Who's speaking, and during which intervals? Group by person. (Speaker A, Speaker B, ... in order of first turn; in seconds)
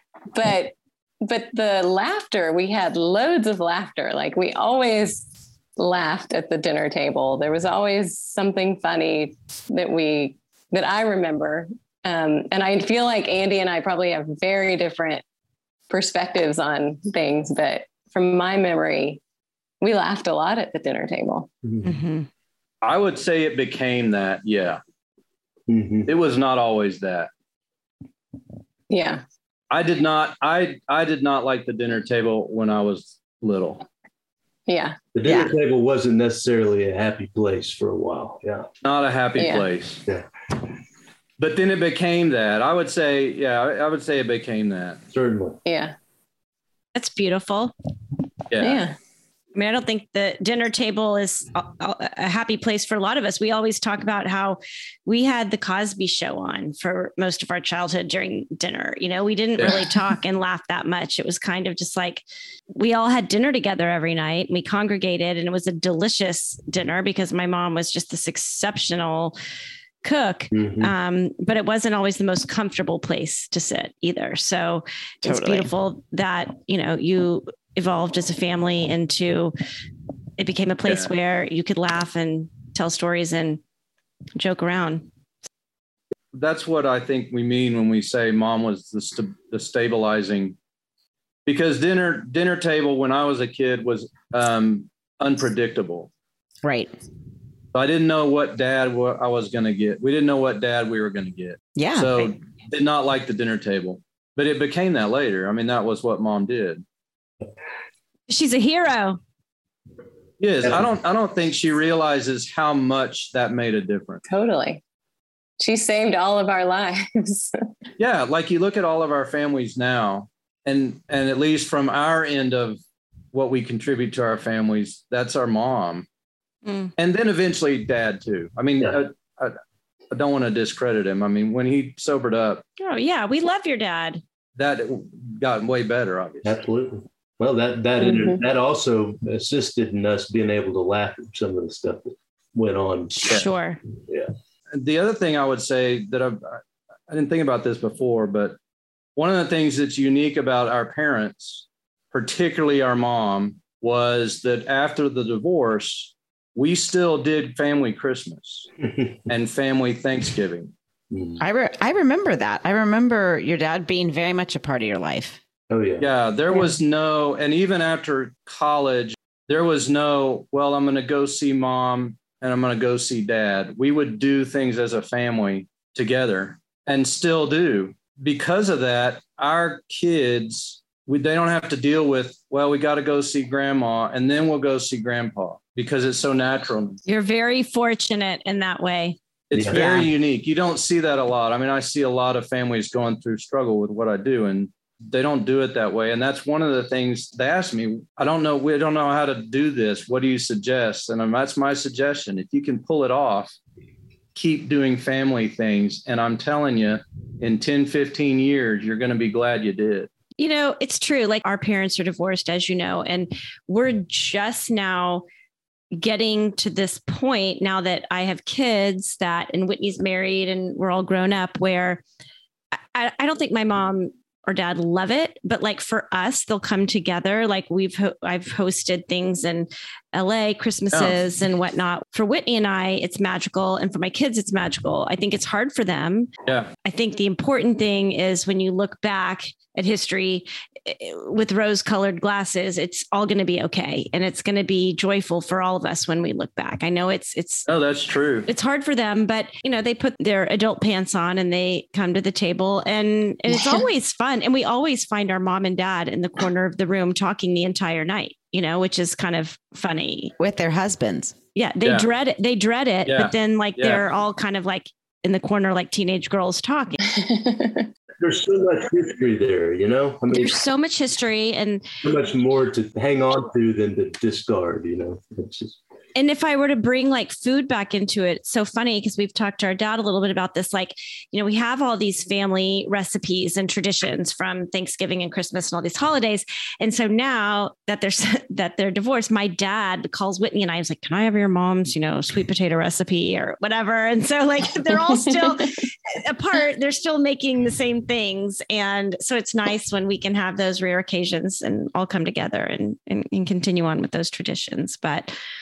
Speaker A: 0.3-15.2, 15.9-19.2, 19.8-21.5, 28.9-29.2, 34.7-35.0, 39.4-39.7, 45.6-46.0, 48.6-49.0, 114.3-114.8, 115.6-117.5, 138.0-138.4, 267.1-267.9
Speaker B: 21.6-21.9, 25.7-26.1, 35.1-38.7, 45.1-45.6, 70.5-70.9, 136.4-143.3, 161.1-161.4, 165.7-166.1, 189.5-190.1, 268.2-270.6, 272.0-275.8
Speaker C: 21.8-22.3, 47.0-47.7, 49.5-69.4, 70.0-79.5, 80.4-83.6, 84.4-85.1, 108.3-109.2, 126.7-126.9, 132.8-134.2, 143.2-143.8, 187.1-189.2, 210.4-215.2, 215.9-222.0, 222.9-236.3, 236.8-247.7, 248.5-260.3, 261.6-267.0, 270.3-271.9, 276.1-305.3
Speaker D: 22.8-24.8, 26.1-27.3, 29.7-33.9, 38.8-40.0, 41.4-45.0, 48.5-48.9, 59.6-59.9, 80.8-81.1, 86.3-90.6, 91.5-96.1, 97.7-106.8, 110.4-114.2, 118.0-122.8, 123.3-126.1, 127.0-129.6, 130.1-132.6, 134.6-136.6, 144.7-148.6, 149.2-158.7, 159.3-160.7, 166.0-187.0, 189.5-203.6, 204.3-210.1, 230.9-231.2, 236.4-236.7, 247.7-248.5, 261.8-262.1, 263.1-264.0
Speaker E: 75.2-75.7, 96.6-96.9, 101.8-102.3, 161.4-165.4, 260.4-261.4